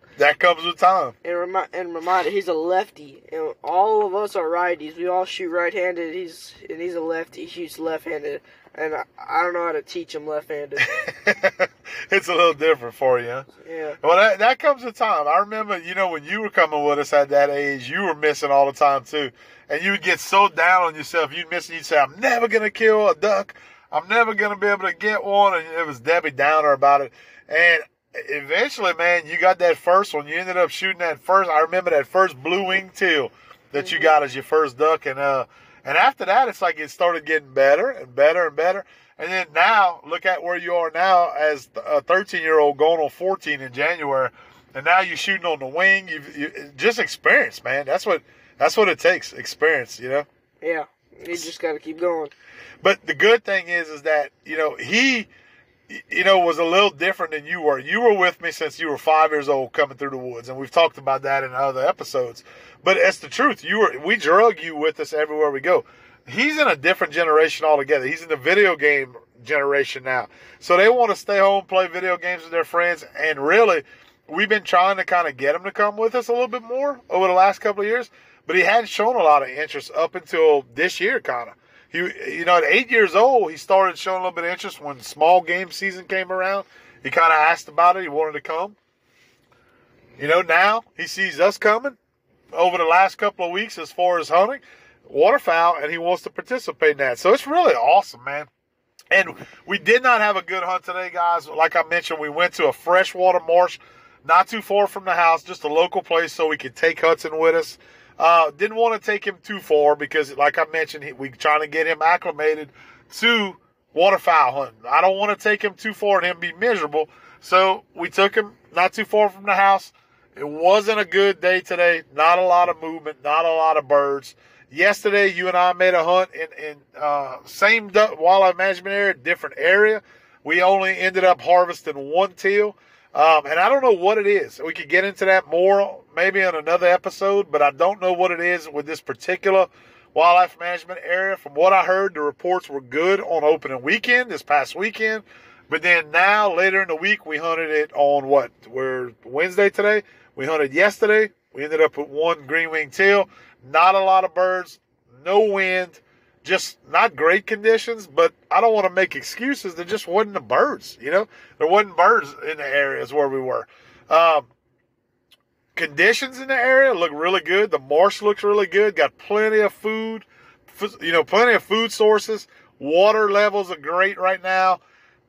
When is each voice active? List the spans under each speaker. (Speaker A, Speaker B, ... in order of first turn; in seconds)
Speaker A: 0.2-1.1, 10.8-13.5, 14.0-50.2, 52.8-55.3, 55.9-88.8, 90.2-92.0, 92.5-98.5, 99.1-164.5, 165.7-174.8
Speaker B: 1.2-10.9, 13.6-14.0, 33.8-34.1, 50.6-52.3